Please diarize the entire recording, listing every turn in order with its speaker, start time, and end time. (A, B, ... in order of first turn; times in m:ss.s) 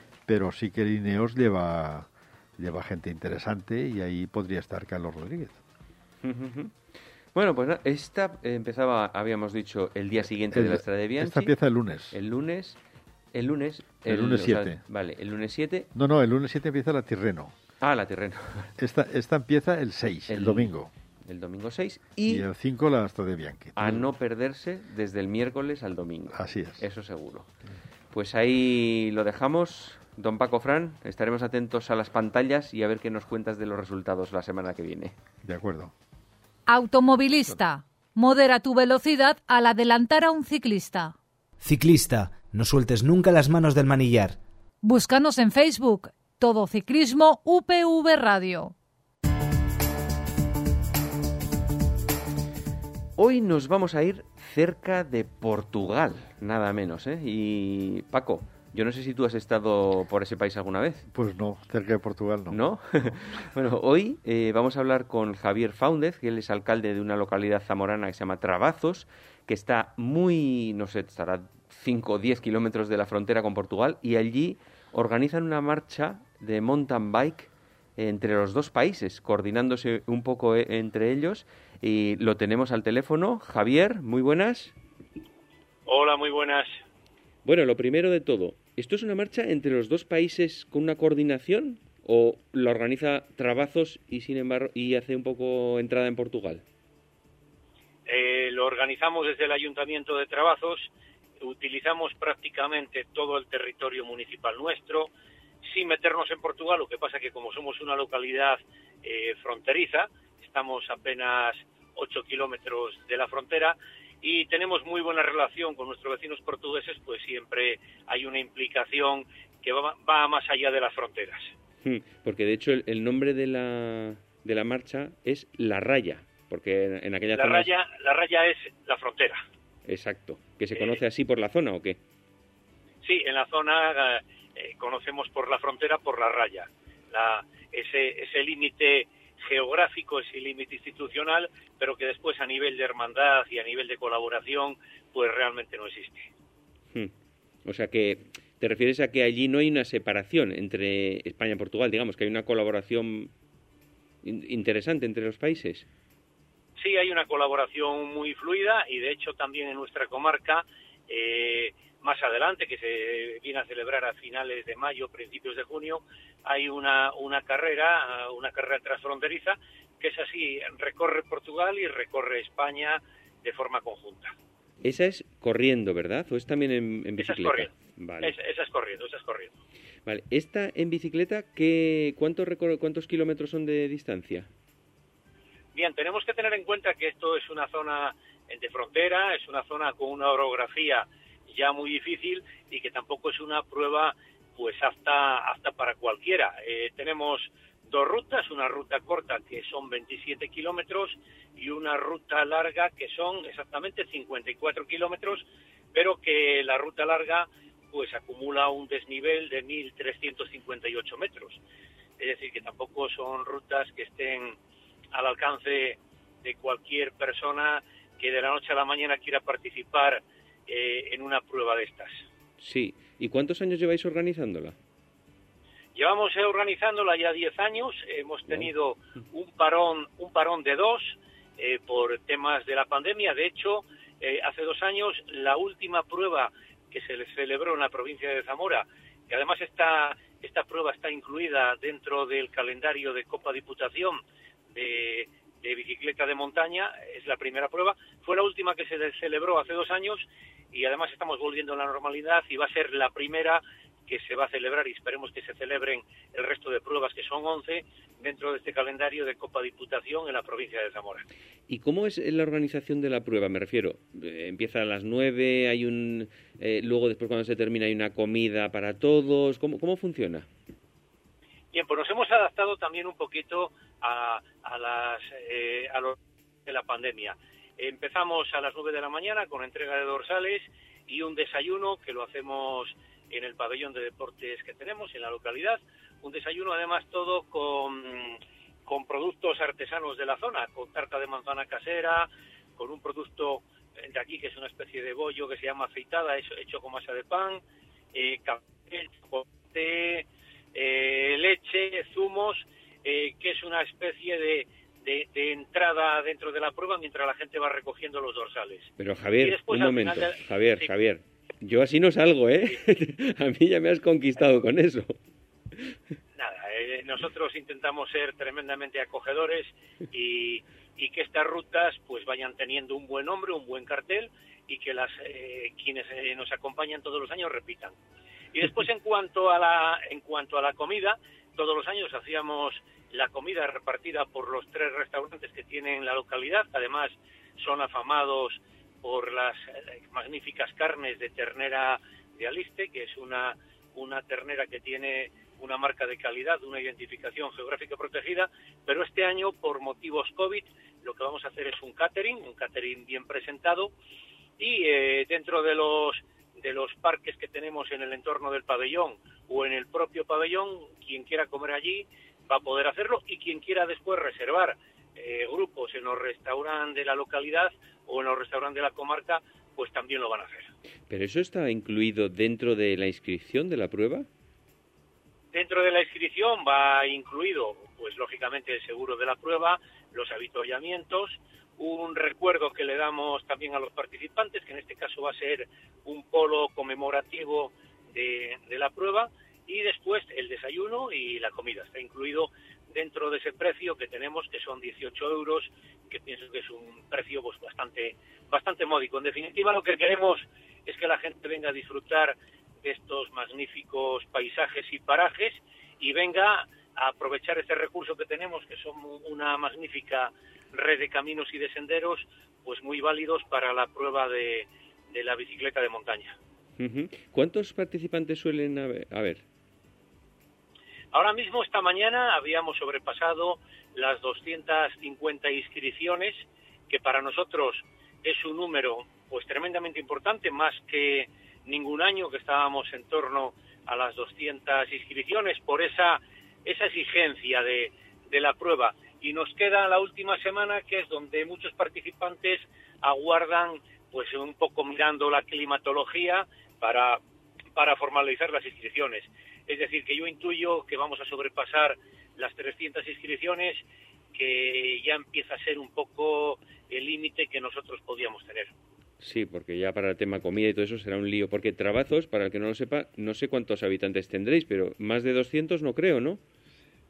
0:00.3-0:05.6 A
0:06.2-0:06.8 B
0:07.3-0:11.5 B
0:10.5-0:12.2 A
0:12.1-0:12.8 B
0:13.3-0:15.9 B
0:14.0-0:14.8 A
0:15.9-0:17.5 A
0:17.8-0:18.7 B
0:18.8-0:20.9 A
0:20.3-0:20.7 B
0:21.2-0:22.5 B
0:22.2-0:24.1 A
0:23.8-0:27.5 B
0:26.3-0:26.8 A
0:28.1-0:35.1 B
0:35.4-0:35.9 A
0:36.7-0:41.1 C
0:41.6-0:44.4 D
0:44.8-0:48.7 C
0:53.2-1:01.1 B
1:01.1-1:03.1 A
1:02.5-1:24.8 B
1:25.8-1:26.7 E
1:27.4-1:36.6 B
1:38.1-1:45.1 E
1:45.6-2:01.5 E
2:01.8-2:07.7 B
2:07.3-2:09.4 E
2:09.8-2:12.0 B
2:13.0-2:26.3 E
2:27.6-2:33.3 B
2:34.2-2:35.8 B
2:36.8-2:54.3 E
2:54.8-2:58.4 B
2:57.2-2:59.5 E
3:00.0-3:04.5 B
3:05.7-3:31.6 E
3:32.2-3:34.6 E
3:35.1-3:42.2 E
3:42.6-3:44.8 B
3:45.9-4:04.2 E
4:04.7-4:21.2 E
4:21.7-4:30.5 B
4:31.7-4:57.6 E
4:58.1-5:10.9 E
5:09.0-5:15.1 B
5:16.4-5:28.0 E
5:28.5-5:53.9 E
5:54.6-6:10.7 E
6:11.1-6:14.3 B
6:15.5-6:56.4 E
6:56.8-6:59.4 B
7:01.1-7:27.2 E
7:27.8-7:33.8 E
7:34.3-7:38.7 E
7:39.2-7:46.4 B